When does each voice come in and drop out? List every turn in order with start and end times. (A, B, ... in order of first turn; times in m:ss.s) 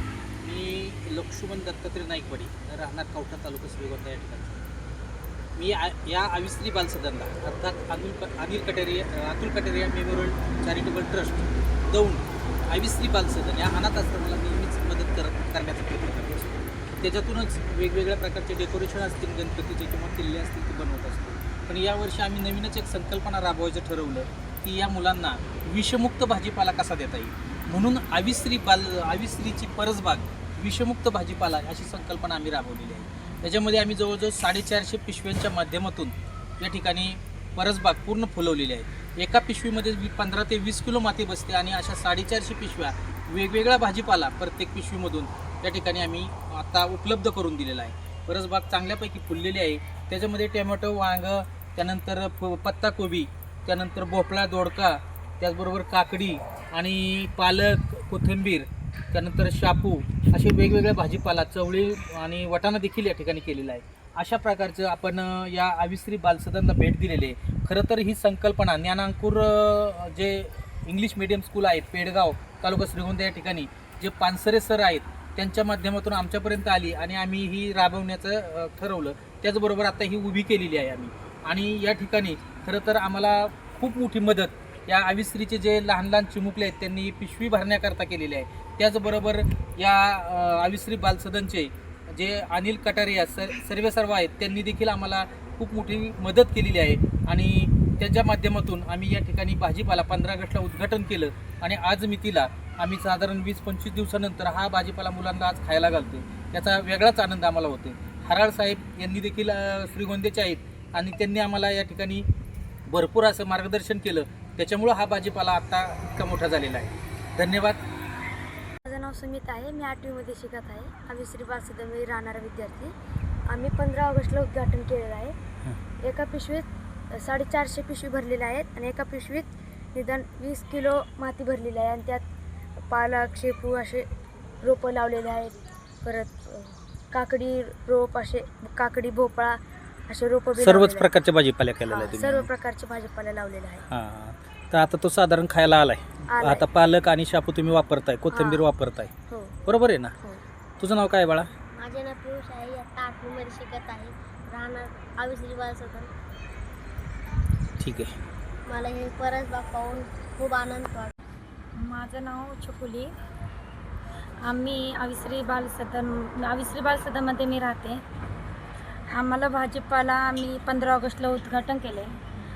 0:00.4-0:04.6 A
0:05.6-1:52.2 A
1:52.9-1:57.8 A
1:58.8-2:02.9 B
2:03.5-2:05.3 B
2:06.0-2:12.2 B
2:12.9-2:14.1 B
2:14.6-2:21.1 B
2:20.6-2:22.5 A
2:21.9-2:23.8 B
2:23.9-2:29.1 A
2:26.3-2:26.6 B
2:28.3-2:28.7 B
2:29.3-2:29.6 B
2:29.6-2:30.2 A
2:30.8-2:31.5 A
2:31.8-2:36.1 C
2:37.8-2:38.2 A
2:38.6-2:41.1 C
2:41.8-2:43.1 D
2:44.4-2:48.0 D
2:49.1-2:52.1 D